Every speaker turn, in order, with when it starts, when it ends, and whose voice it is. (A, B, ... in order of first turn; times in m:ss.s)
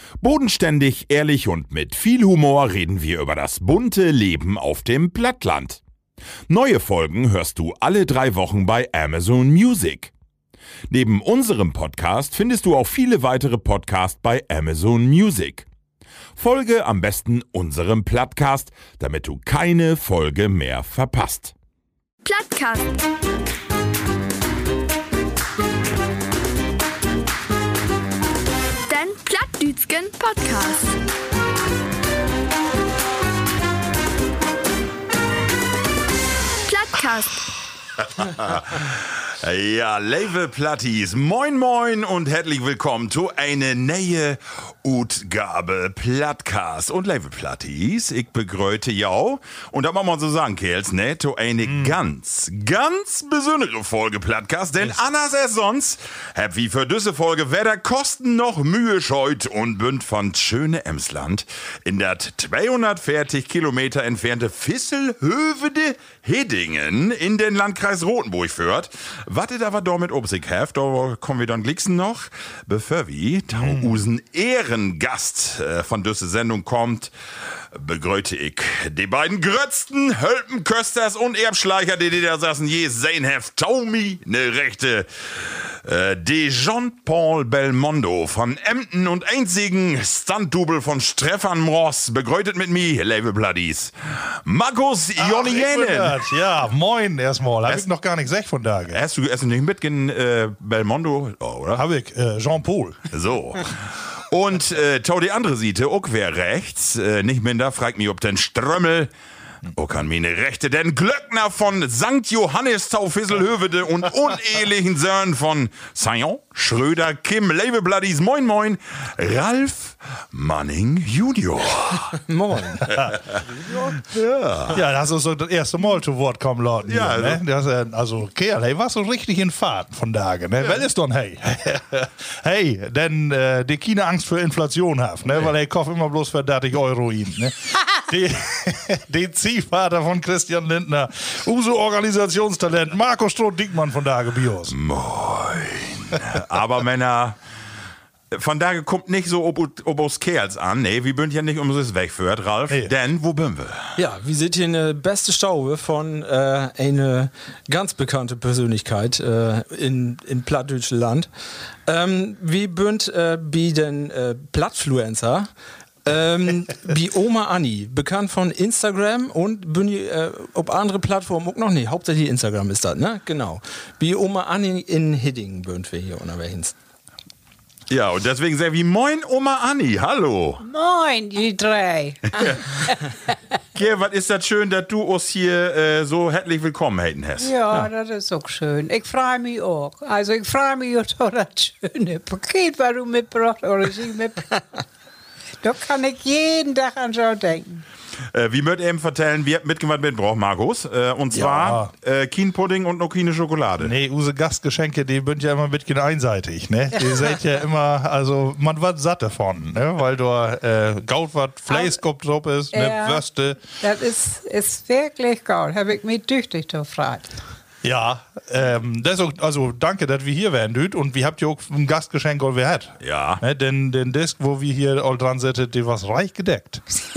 0:00.2-0:05.8 A
0:06.5-0:10.1 A
0:10.9-0:15.6 A
0:16.4-0:21.5 A
0:22.2-0:23.0 B
0:28.9-0:31.0 B
0:36.7-0:37.5 B
0:38.0-1:17.1 A
0:51.6-0:52.0 C
1:13.5-1:14.0 C
1:17.7-1:36.3 A
1:35.2-1:39.0 C
1:38.9-1:41.8 A
1:41.7-1:43.1 C
1:43.1-1:49.1 A
1:49.7-2:02.2 A
2:02.2-2:04.0 D
2:02.9-2:03.2 C
2:03.9-2:04.8 A
2:04.7-2:24.8 C
2:06.8-2:07.4 A
2:24.7-2:27.4 A
2:28.3-2:34.0 A
2:34.0-2:41.3 D
2:41.8-2:45.5 D
2:46.0-2:56.7 D
2:57.9-3:00.6 A
3:00.6-3:03.0 E
3:03.7-3:07.5 A
3:07.4-3:14.8 E
3:15.6-3:17.8 E
3:18.3-3:23.9 A
3:21.3-3:21.9 C
3:23.8-3:33.7 C
3:31.7-3:32.0 E
3:32.7-3:37.4 E
3:37.8-3:46.8 C
3:43.0-3:43.4 A